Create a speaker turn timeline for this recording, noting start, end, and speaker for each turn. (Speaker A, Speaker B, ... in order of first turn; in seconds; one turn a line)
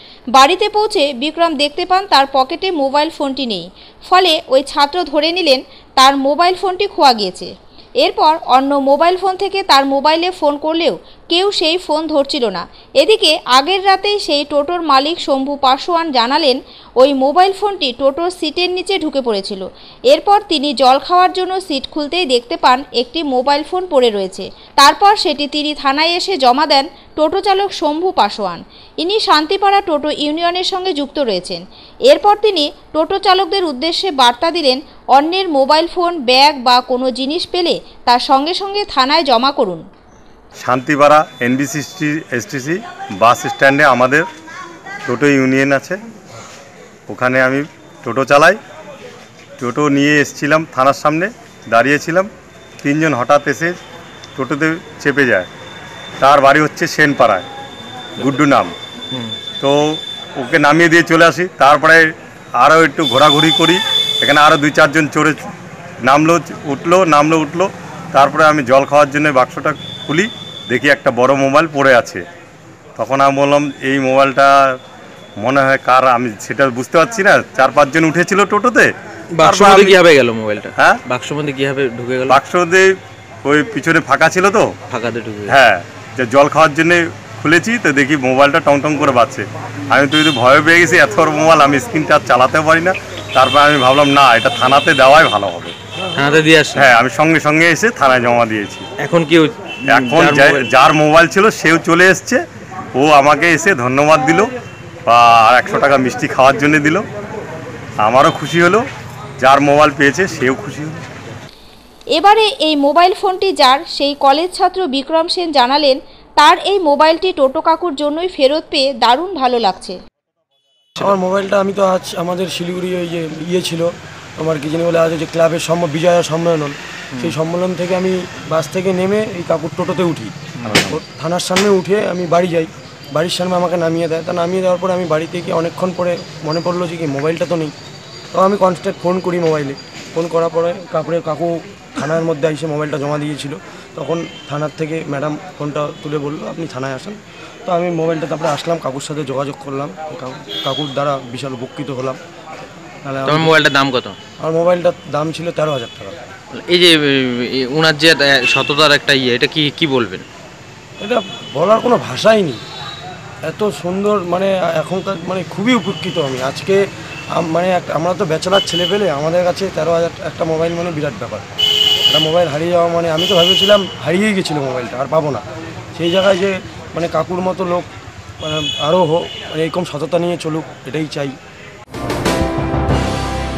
Speaker A: 0.3-7.5
Speaker A: 8.0-39.8
Speaker B: 40.6-44.2
Speaker B: 45.1-46.0
Speaker B: 47.1-48.6
Speaker B: 49.6-52.3
Speaker B: 52.8-53.7
Speaker B: 54.4-55.5
Speaker B: 56.2-57.5
Speaker B: 58.2-58.7
Speaker B: 59.6-62.0
Speaker B: 62.6-65.4
Speaker B: 66.0-72.2
Speaker B: 73.0-74.5
Speaker B: 75.4-78.9
Speaker C: 79.3-82.4
Speaker B: 79.4-80.0
Speaker B: 82.3-82.9
Speaker B: 83.4-84.7
Speaker C: 84.9-85.5
Speaker B: 85.5-95.7
Speaker C: 96.2-96.9
Speaker B: 96.7-98.8
Speaker C: 99.0-100.7
Speaker B: 99.9-102.4
Speaker B: 102.9-104.5
Speaker B: 105.1-107.0
Speaker B: 108.0-108.8
Speaker B: 109.4-111.0
Speaker A: 112.1-120.0
Speaker D: 121.0-130.3
Speaker C: 130.6-131.0
Speaker D: 130.9-137.7
Speaker D: 138.3-152.2
Speaker D: 153.0-153.6
Speaker C: 153.2-154.2
Speaker D: 154.4-156.2
Speaker C: 156.5-160.2
Speaker D: 161.0-162.6
Speaker D: 163.4-166.8
Speaker D: 167.3-171.4
Speaker D: 172.1-175.4
Speaker D: 175.9-177.9
Speaker D: 178.4-181.4